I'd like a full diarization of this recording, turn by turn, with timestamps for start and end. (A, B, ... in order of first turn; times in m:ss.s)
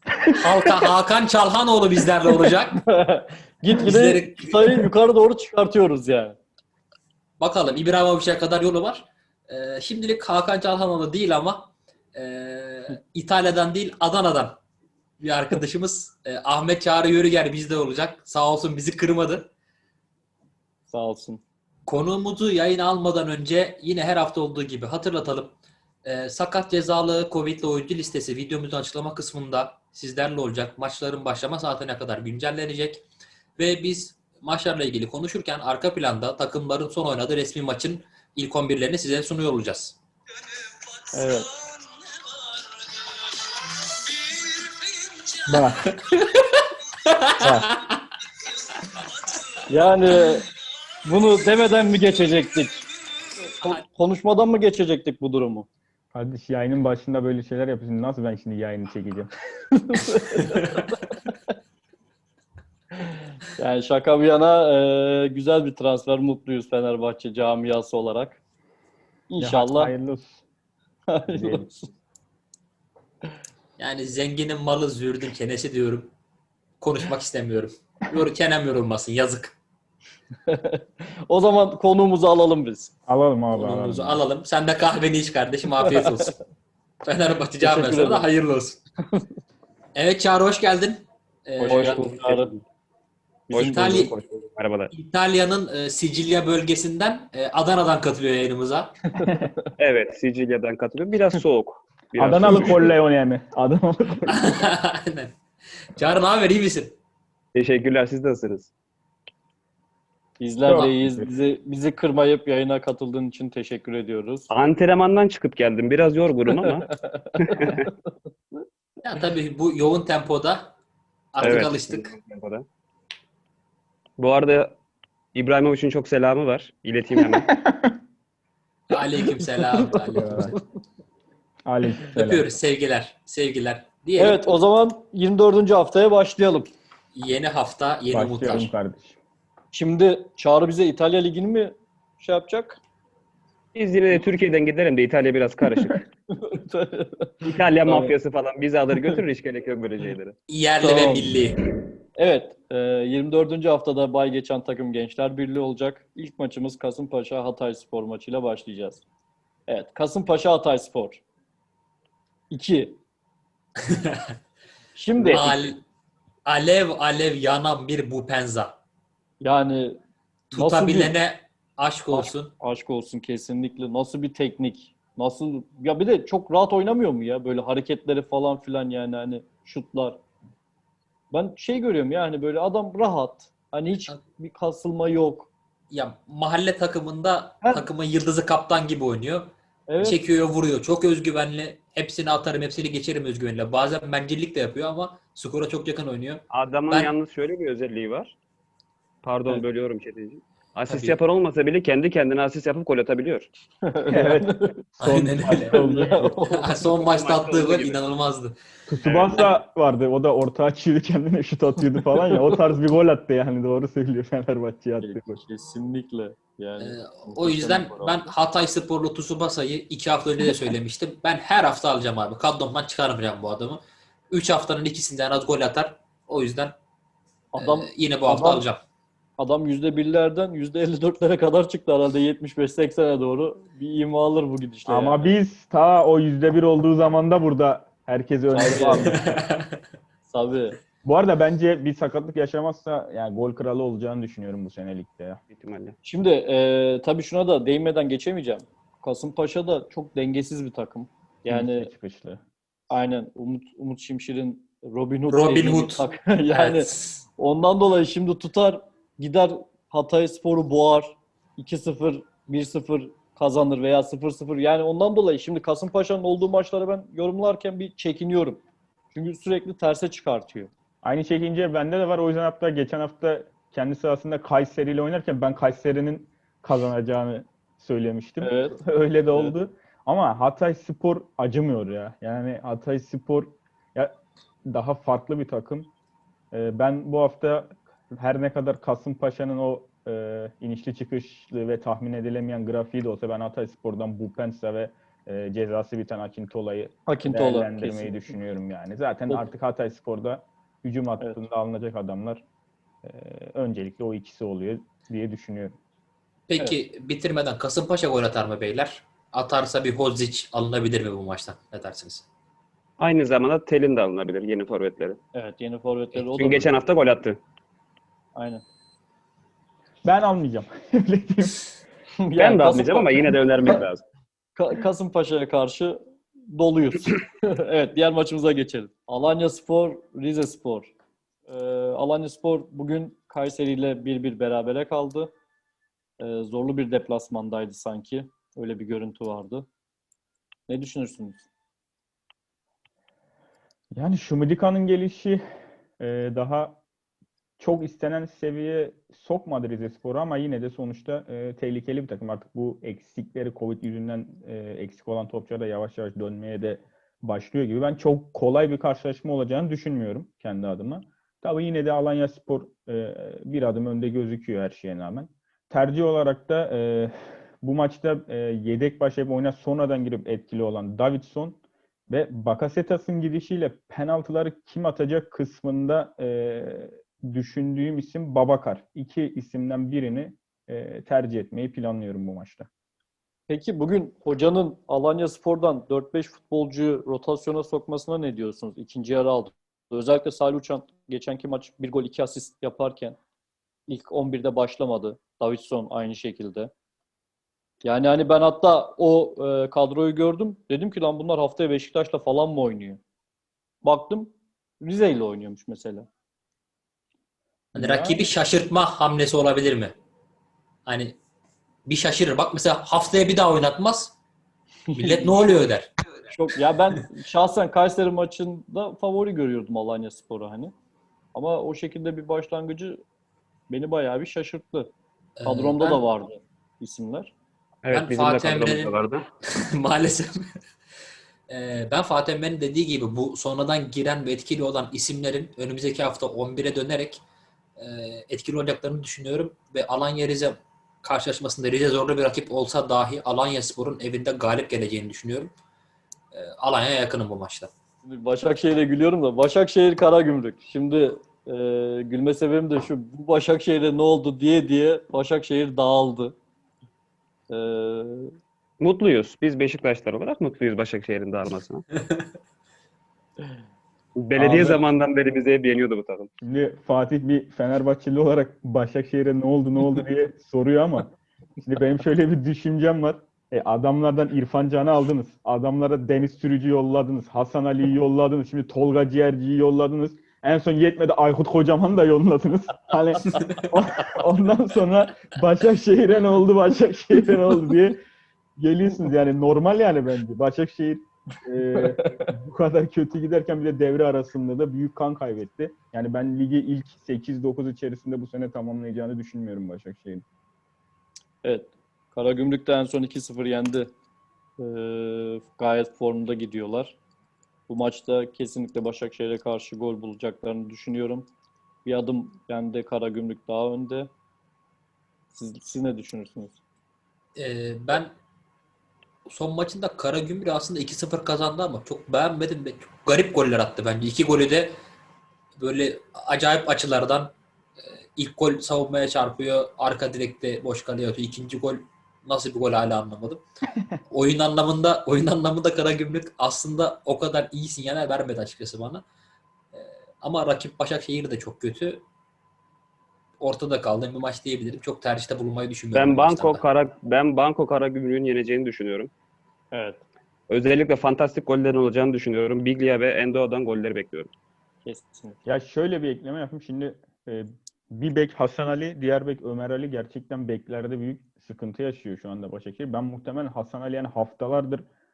0:00.2-0:00.9 A
0:00.4-0:02.8 B
0:02.8-0:06.4 C
0:03.8-0:04.8 B
0:07.4-0:14.6 B
0:15.2-0:19.5 B
0:20.9-0:21.4 C
0:21.9-0:33.0 B
0:33.6-0:40.0 B
0:41.1-0:41.5 C
0:45.5-0:45.9 A
0:45.9-0:48.0 B
0:47.4-0:47.7 A
0:49.7-0:50.5 C
0:51.0-0:52.8 C
0:53.4-0:55.7 C
0:56.1-0:59.3 A
0:59.7-1:01.0 C
1:03.0-1:08.4 C
1:09.3-1:09.9 C
1:09.4-1:10.4 A
1:11.1-1:11.9 C
1:11.2-1:11.7 A
1:13.8-1:16.1 B
1:16.8-1:19.6 B
1:20.4-1:22.9 C
1:23.1-1:24.2 A
1:23.5-1:26.4 B
1:25.8-1:26.3 C
1:27.0-1:28.8 B
1:27.6-1:28.3 C
1:29.9-1:32.4 B
1:31.6-1:32.5 C
1:31.7-1:32.4 D
1:33.5-1:34.9 D
1:33.5-1:34.1 B
1:34.9-1:38.9 B
1:39.1-1:39.7 C
1:39.2-1:39.5 A
1:39.8-1:42.9 D
1:42.2-1:44.7 A
1:44.3-1:45.4 B
1:45.9-1:47.0 B
1:47.5-1:48.7 D
1:50.4-1:54.5 C
1:50.6-1:51.2 A
1:54.5-1:57.9 D
1:56.8-1:57.9 C
1:59.0-2:00.7 B
2:01.3-2:02.1 B
2:01.4-2:02.6 D
2:04.2-2:04.7 D
2:05.3-2:07.5 D
2:07.4-2:08.0 A
2:08.9-2:10.5 B
2:09.6-2:10.6 C
2:10.1-2:10.5 A
2:11.6-2:12.5 A
2:12.1-2:14.4 B
2:14.2-2:16.7 C
2:17.1-2:18.7 B
2:18.1-2:19.2 A
2:19.7-2:22.8 C
2:23.7-2:26.0 D
2:26.3-2:28.1 C
2:27.4-2:30.4 D
2:30.5-2:31.6 B
2:30.8-2:31.3 C
2:32.2-2:39.0 C
2:39.7-2:41.2 C
2:42.5-2:43.0 C
2:43.8-2:44.4 B
2:44.9-2:45.7 C
2:45.2-2:45.8 B
2:46.4-2:48.8 B
2:49.4-2:50.0 C
2:50.5-2:52.5 B
2:50.5-2:51.1 C
2:52.1-3:00.2 C
3:01.3-3:05.5 C
3:05.9-3:17.1 B
3:09.9-3:10.2 C
3:16.5-3:18.4 D
3:19.2-3:23.5 D
3:20.9-3:21.2 B
3:23.8-3:24.8 C
3:24.1-3:26.4 A
3:25.0-3:28.6 B
3:25.7-3:26.8 C
3:26.9-3:28.0 D
3:28.9-3:35.4 A
3:29.0-3:29.5 D
3:32.3-3:32.6 C
3:35.0-3:38.2 C
3:36.8-3:46.8 B
3:47.5-3:48.6 C
3:47.6-3:48.8 B
3:49.4-3:55.3 C
3:54.8-3:59.3 A
3:58.5-3:59.2 C
3:58.8-3:59.8 B
4:00.3-4:00.8 C
4:01.0-4:05.4 A
4:05.5-4:06.0 D
4:06.0-4:11.9 C
4:11.5-4:12.4 A
4:12.9-4:30.7 C
4:15.3-4:17.1 B
4:31.0-4:45.9 A
4:38.4-4:38.8 C
4:46.5-5:02.4 A
4:57.1-4:58.3 C
5:03.0-5:05.8 A
5:06.5-5:12.2 B
5:13.0-5:15.2 D
5:15.3-5:16.7 C
5:16.3-5:17.4 D
5:18.3-5:18.6 C
5:20.0-5:21.7 A
5:22.2-5:23.3 C
5:22.4-5:24.0 D
5:24.6-5:30.9 C
5:31.5-5:35.3 C
5:36.2-5:39.7 C
5:40.7-5:41.4 C
5:43.9-5:45.4 A
5:46.0-5:46.8 A
5:47.6-6:22.7 A
6:23.5-6:33.2 C
6:33.9-6:36.7 C
6:37.8-6:43.0 C
6:43.8-6:46.1 C
6:47.7-6:48.3 A
6:47.7-6:49.9 B
6:50.8-6:51.2 B
6:51.8-6:54.1 B
6:54.9-6:55.4 C
6:55.0-6:55.9 B
6:56.3-7:00.7 C
7:01.3-7:03.0 C
7:03.7-7:04.9 C
7:05.4-7:06.0 B
7:05.4-7:07.3 C
7:07.8-7:09.2 D
7:07.9-7:10.5 B
7:11.5-7:17.2 B
7:17.8-7:25.5 B
7:26.3-7:27.7 B
7:28.0-7:36.4 C
7:37.5-7:38.3 C
7:38.8-7:41.8 D
7:44.1-7:46.3 D
7:44.4-7:44.8 A
7:46.4-8:08.0 A
8:03.4-8:03.6 B
8:08.6-8:20.2 A
8:11.7-8:12.3 C
8:21.4-8:23.9 C
8:24.6-8:27.0 C
8:27.7-8:31.3 C
8:31.8-8:34.1 C
8:35.3-8:36.6 C
8:37.4-8:38.1 B
8:39.3-8:44.8 B
8:45.6-8:47.3 B
8:48.1-8:53.4 B
8:54.1-8:59.0 B
8:59.7-9:02.0 B
9:03.4-9:06.6 B
9:05.9-9:09.1 D
9:09.7-9:10.0 C
9:10.5-9:14.3 D
9:14.8-9:15.4 C
9:15.4-9:24.8 A